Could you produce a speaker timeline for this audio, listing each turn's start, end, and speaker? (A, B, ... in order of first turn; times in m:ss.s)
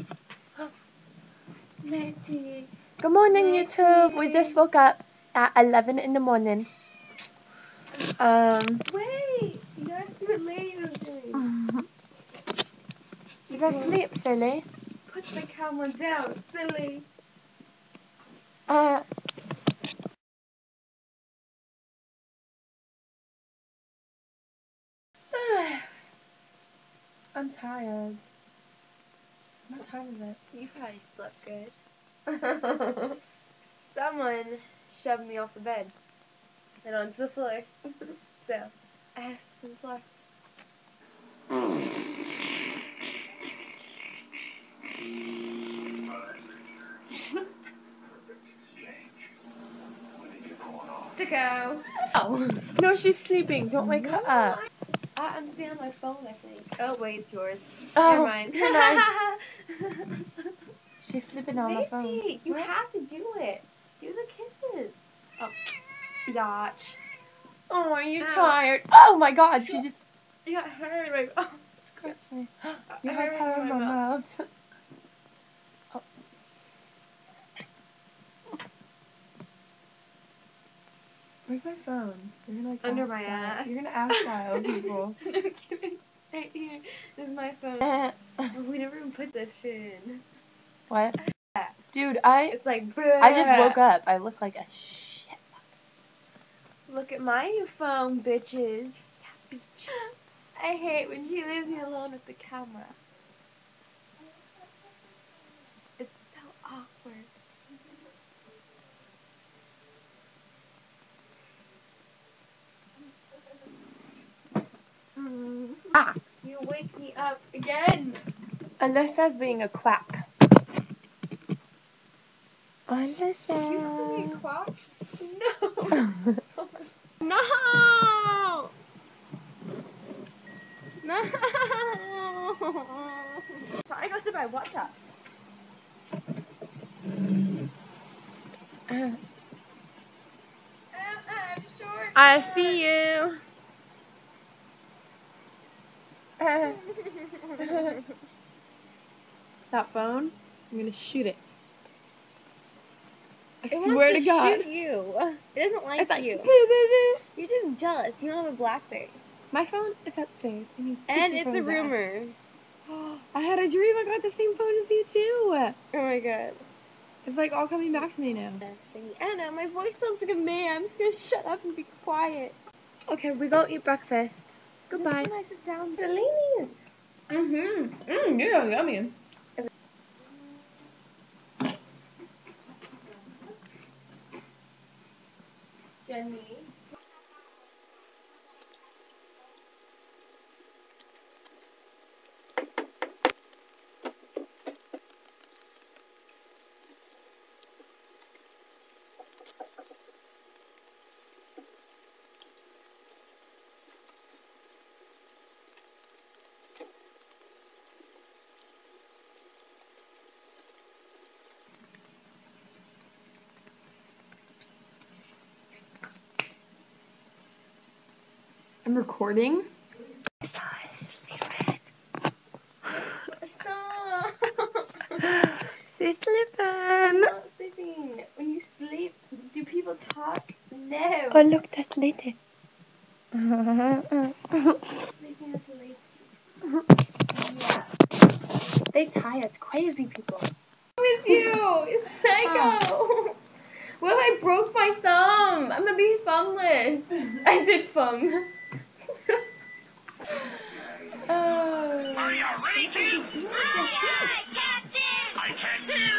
0:01.8-0:02.7 A
0:03.0-0:06.7 B
0:03.3-0:04.6 A
0:08.2-0:08.8 B
0:08.8-0:11.5 A
0:11.3-0:11.8 B
0:13.5-0:14.0 A
0:13.5-0:14.6 B
0:15.1-0:17.1 A
0:18.7-0:19.0 B
0:25.3-0:25.9 B
0:27.3-0:28.2 B
0:29.7-0:30.4 B
0:30.5-0:31.8 A
0:32.3-0:35.9 A
0:36.8-0:40.1 A
0:50.9-0:52.5 A
0:52.1-0:54.6 B
0:53.8-0:54.6 A
0:55.2-1:00.5 A
0:57.9-0:59.1 B
1:01.0-1:02.7 B
1:01.5-1:05.5 A
1:06.2-1:07.0 A
1:07.7-1:10.0 B
1:08.1-1:08.6 A
1:10.4-1:12.1 A
1:12.0-1:14.5 B
1:12.9-1:14.0 A
1:21.5-1:25.2 B
1:22.8-1:28.0 A
1:27.8-1:28.1 B
1:28.5-1:30.2 A
1:30.9-1:31.2 B
1:31.9-1:32.6 B
1:32.5-1:33.8 A
1:33.2-1:35.6 B
1:36.9-1:43.0 A
1:46.0-1:47.3 A
1:55.2-1:58.2 A
1:58.8-2:00.2 B
2:02.9-2:04.4 B
2:03.6-2:08.7 A
2:05.9-2:06.4 B
2:11.0-2:15.0 A
2:18.9-2:19.2 B
2:20.9-2:22.8 A
2:22.1-2:23.4 B
2:26.4-2:26.8 B
2:26.6-2:28.1 A
2:27.6-2:28.0 B
2:29.7-2:31.4 B
2:33.6-2:34.7 B
2:33.7-2:36.5 A
2:36.0-2:37.2 B
2:37.3-2:39.2 A
2:39.5-2:41.9 B
2:41.1-2:42.4 A
2:42.9-2:45.8 B
2:45.9-2:46.6 A
2:47.2-2:48.6 B
2:48.6-2:52.6 A
2:53.1-2:55.3 B
2:54.9-2:56.8 A
2:57.3-2:59.1 B
3:06.0-3:06.7 A
3:38.8-3:39.7 B
3:40.4-3:41.8 B
3:42.9-3:45.3 A
3:45.2-3:47.3 B
3:47.0-3:51.5 A
3:51.3-3:52.4 B
3:53.3-3:54.9 B
3:54.9-3:56.0 A
3:57.3-3:57.9 A
3:58.9-4:00.5 B
4:01.0-4:03.4 A
4:02.4-4:02.8 B
4:04.0-4:08.5 A
4:11.3-4:12.4 B
4:12.6-4:14.5 A